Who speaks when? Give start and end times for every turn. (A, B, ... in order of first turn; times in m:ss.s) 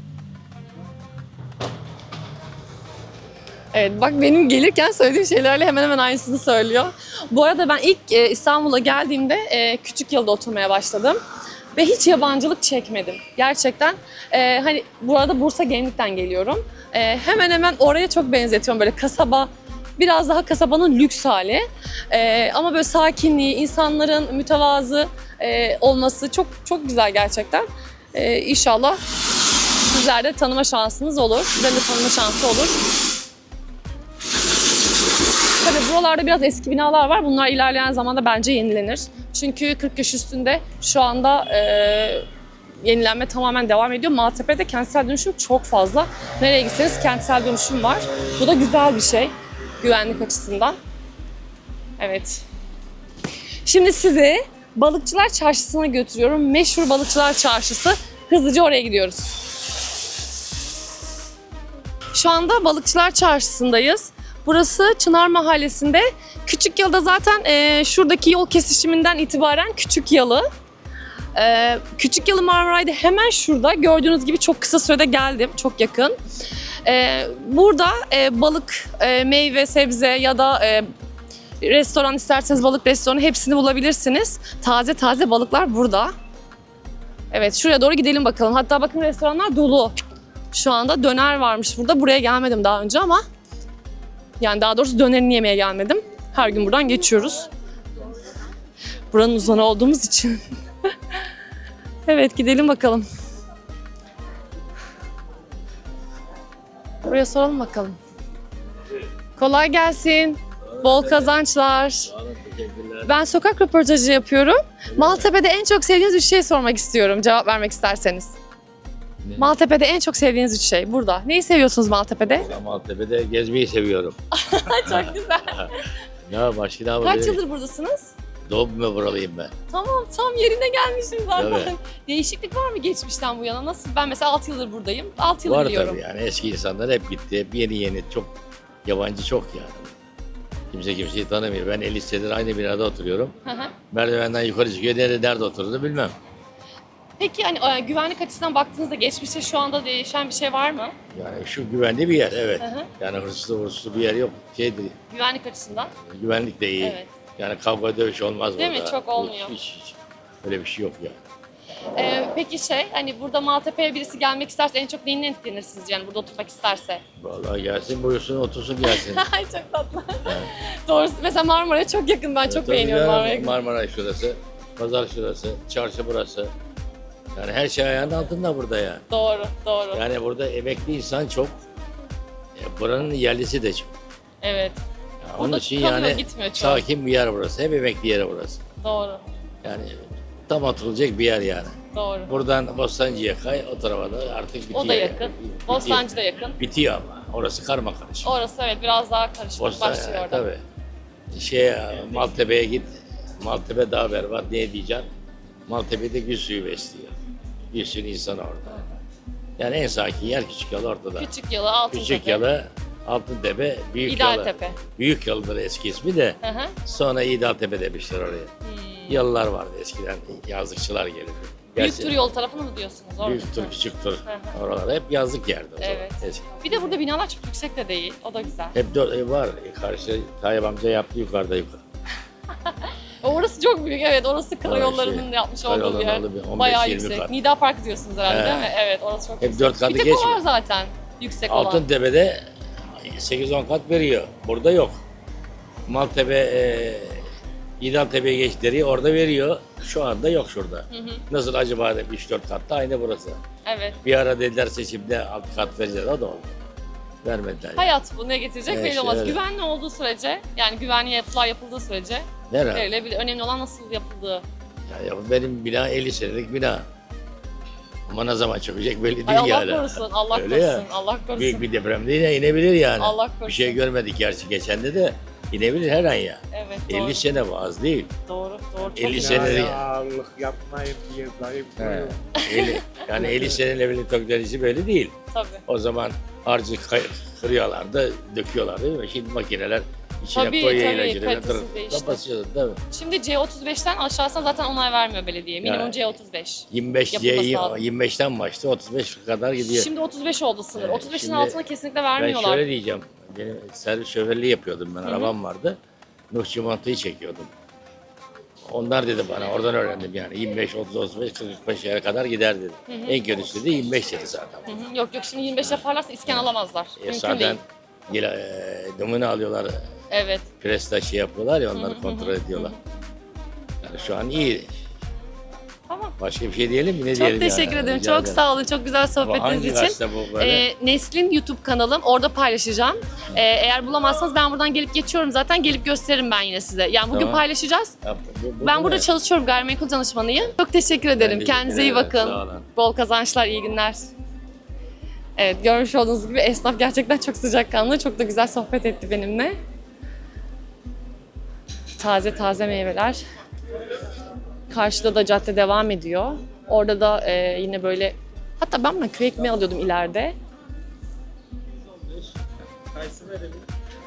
0:03.7-0:11.2 A
0:11.8-0:29.0 A
0:29.8-0:32.8 A
0:35.6-0:42.3 A
0:42.8-0:50.8 A
0:52.0-0:52.4 A
0:53.6-0:59.3 A
1:02.1-1:10.5 A
1:11.4-1:16.2 A
1:16.8-1:20.9 A
1:21.6-1:26.1 A
1:27.3-1:30.0 A
1:30.5-1:33.2 A
1:34.4-1:37.5 A
1:39.1-1:40.4 A
1:42.1-1:43.0 A
1:47.0-1:48.0 A
1:49.4-1:52.1 A
1:50.7-1:51.4 B
1:52.0-1:53.2 B
1:53.1-1:58.3 A
1:54.9-1:55.3 B
1:59.2-1:59.6 B
1:59.4-2:02.5 A
2:02.4-2:04.2 B
2:04.3-2:05.7 A
2:04.9-2:05.7 B
2:06.3-2:07.4 B
2:07.0-2:08.1 A
2:08.5-2:09.5 B
2:09.7-2:16.0 A
2:11.4-2:11.7 B
2:15.4-2:18.3 B
2:18.8-2:19.9 B
2:20.7-2:23.4 B
2:23.4-2:23.7 A
2:23.9-2:26.2 B
2:27.2-2:31.0 A
2:31.1-2:35.0 B
2:32.6-2:32.9 A
2:35.1-2:35.9 A
2:36.1-2:41.2 B
2:36.8-2:37.1 A
2:38.6-2:39.6 A
2:42.0-2:47.0 A
2:47.2-2:49.3 B
2:48.8-2:53.6 A
2:50.2-2:50.5 B
2:52.4-2:56.5 B
2:57.4-2:59.0 B
2:59.1-3:00.0 A
2:59.9-3:01.6 B
3:02.6-3:03.9 B
3:04.4-3:04.8 A
3:05.2-3:08.6 B
3:05.4-3:06.8 A
3:08.8-3:09.2 A
3:09.6-3:11.8 B
3:11.9-3:12.3 A
3:12.3-3:16.1 B
3:14.7-3:16.6 A
3:16.6-3:18.3 B
3:18.2-3:20.4 A
3:19.6-3:20.6 B
3:21.3-3:25.1 B
3:25.7-3:27.1 B
3:27.7-3:28.9 B
3:29.6-3:31.3 B
3:31.2-3:32.4 A
3:31.9-3:38.5 B
3:34.1-3:34.8 A
3:36.4-3:36.8 A
3:38.6-3:39.3 A
3:39.1-3:42.1 B
3:41.8-3:43.7 A
3:43.2-3:46.6 B
3:44.3-3:44.5 A
3:45.8-3:48.8 A
3:48.8-3:51.8 B
3:53.2-4:01.8 A
3:54.6-3:57.4 B
3:58.3-3:58.7 B
3:59.4-4:00.4 B
4:01.5-4:02.5 B
4:03.0-4:05.0 B
4:05.9-4:07.2 B
4:07.8-4:13.4 B
4:10.9-4:11.2 A
4:13.6-4:14.0 A
4:14.0-4:16.6 B
4:17.2-4:17.9 B
4:17.8-4:24.4 A
4:18.7-4:19.4 B
4:22.5-4:22.9 B
4:24.9-4:26.8 B
4:28.1-4:38.1 B
4:29.3-4:31.7 A
4:33.0-4:33.8 A
4:36.5-4:37.2 A
4:38.3-4:39.7 A
4:38.9-4:39.9 B
4:39.1-4:42.1 C
4:41.8-4:45.1 B
4:42.4-4:42.8 A
4:45.3-4:45.6 A
4:45.7-4:52.8 B
4:50.3-4:52.2 A
4:52.9-4:57.8 A
4:55.6-4:56.0 B
4:56.7-4:59.9 B
4:59.7-5:02.6 A
5:00.8-5:01.6 B
5:02.2-5:05.8 B
5:05.1-5:05.3 A
5:06.3-5:07.5 B
5:08.7-5:14.9 B
5:12.9-5:13.2 A
5:14.7-5:17.6 A
5:15.6-5:19.8 B
5:20.1-5:20.5 A
5:20.6-5:22.8 B
5:21.8-5:22.8 A
5:23.8-5:24.7 B
5:25.9-5:26.2 A
5:26.2-5:28.4 B
5:27.1-5:37.9 A
5:29.2-5:30.7 B
5:37.1-5:37.4 B
5:38.0-5:39.1 B
5:38.6-5:44.0 A
5:41.2-5:42.7 B
5:45.4-5:49.6 A
5:52.0-5:53.2 A
5:54.7-6:00.4 A
6:03.0-6:03.6 C